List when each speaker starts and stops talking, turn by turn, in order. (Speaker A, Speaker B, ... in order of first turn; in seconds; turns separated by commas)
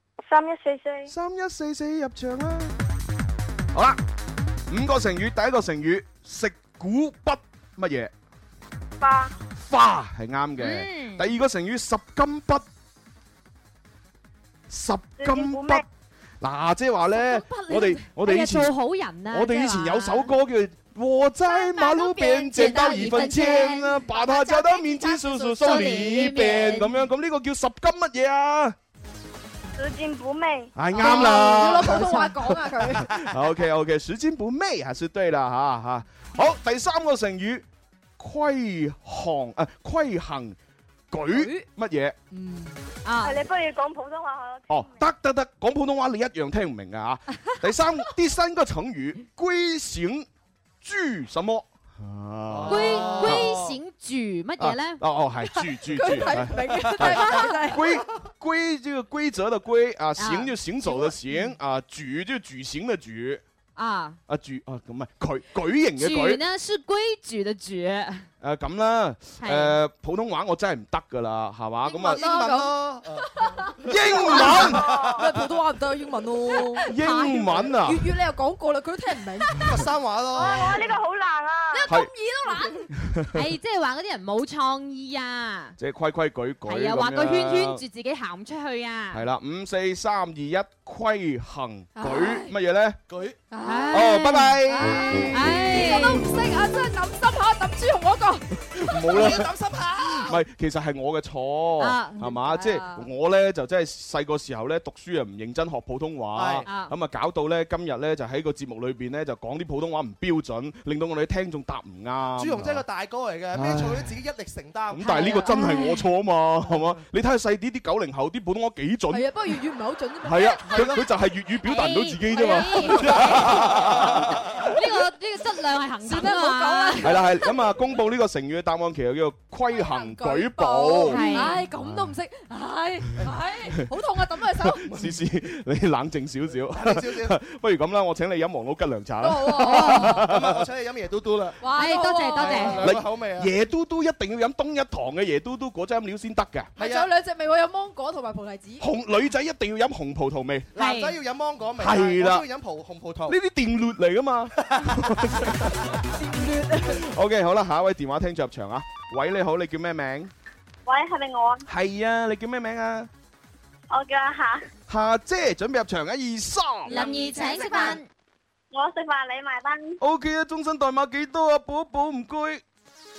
Speaker A: 0.2-1.1, Speaker B: 1.1-2.7, Speaker B: 3.7-4.0, Speaker B: 4.7-8.1, Speaker A: 9.0-9.3, Speaker B: 9.7-12.7, Speaker C: 10.6-11.3, Speaker B: 14.7-15.8, Speaker A: 15.2-15.8, Speaker B: 16.4-18.7, Speaker D: 17.1-18.1, Speaker C: 18.2-20.3, Speaker B: 19.3-28.8, Speaker D: 21.4-25.7, Speaker C: 22.5-23.9, Speaker C: 25.4-27.0, Speaker A: 29.8-30.7, Speaker B: 30.8-32.4, Speaker D: 30.9-33.0, Speaker E: 32.8-33.3, Speaker B: 33.0-37.6, Speaker B: 38.2-40.6, Speaker B: 41.1-42.2, Speaker D: 41.3-41.6, Speaker D: 42.3-42.8, Speaker C: 43.0-43.4, Speaker A: 43.2-45.0, Speaker B: 44.7-50.3, Speaker B: 50.8-53.5, Speaker E: 52.5-53.8, Speaker C: 52.7-55.0, Speaker B: 54.6-63.4, Speaker D: 55.5-57.9, Speaker E: 57.0-57.3, Speaker C: 60.2-60.5, Speaker D: 60.8-61.4, Speaker C: 63.8-64.2, Speaker B: 64.3-66.4, Speaker C: 66.0-68.3, Speaker B: 68.4-72.2, Speaker C: 69.4-69.8, Speaker D: 71.9-72.8, Speaker E: 72.0-75.2, Speaker D: 73.4-76.9, Speaker B: 73.8-74.9, Speaker A: 74.2-75.2, Speaker C: 76.8-77.6, Speaker B: 76.9-78.0, Speaker D: 77.6-79.7, Speaker E: 79.6-80.9, Speaker A: 80.3-81.9, Speaker D: 80.4-80.9, Speaker D: 81.7-82.9, Speaker B: 83.0-83.4, Speaker C: 83.3-85.8, Speaker B: 85.8-87.8, Speaker C: 86.7-89.2, Speaker B: 89.1-93.0, Speaker D: 92.0-92.5, Speaker E: 93.1-93.4, Speaker D: 93.5-98.5, Speaker C: 93.6-94.6, Speaker B: 93.9-95.6, Speaker C: 95.1-96.3, Speaker B: 98.7-99.5, Speaker E: 99.1-100.4, Speaker B: 100.1-112.8, Speaker C: 101.8-102.4, Speaker D: 102.5-103.1, Speaker E: 106.3-106.7, Speaker C: 106.7-106.9, Speaker E: 112.4-115.5, Speaker B: 113.5-114.2, Speaker B: 114.9-119.3, Speaker C: 115.0-116.0, Speaker D: 119.1-121.0, Speaker B: 120.2-124.7, Speaker C: 121.6-123.9, Speaker C: 124.6-127.1, Speaker D: 126.0-127.5, Speaker B: 127.0-132.1, Speaker D: 129.7-134.9, Speaker C: 131.1-131.6, Speaker B: 134.6-140.7, Speaker E: 136.7-137.3, Speaker D: 139.2-140.2, Speaker C: 139.7-140.0, Speaker E: 140.1-141.6, Speaker D: 141.6-142.8, Speaker C: 141.8-142.9, Speaker E: 142.4-143.5, Speaker B: 142.8-146.7, Speaker E: 146.8-147.1, Speaker D: 146.8-148.8, Speaker B: 148.8-150.7, Speaker E: 150.8-153.4, Speaker C: 150.8-151.2, Speaker B: 151.8-152.5, Speaker B: 153.3-155.9, Speaker E: 154.7-155.5, Speaker D: 156.2-157.0, Speaker B: 156.8-160.3, Speaker A: 160.9-161.7, Speaker B: 161.7-163.1, Speaker A: 163.9-164.6, Speaker B: 164.9-167.0, Speaker C: 166.9-168.1, Speaker D: 166.9-168.0, Speaker A: 168.7-170.0, Speaker B: 170.0-172.6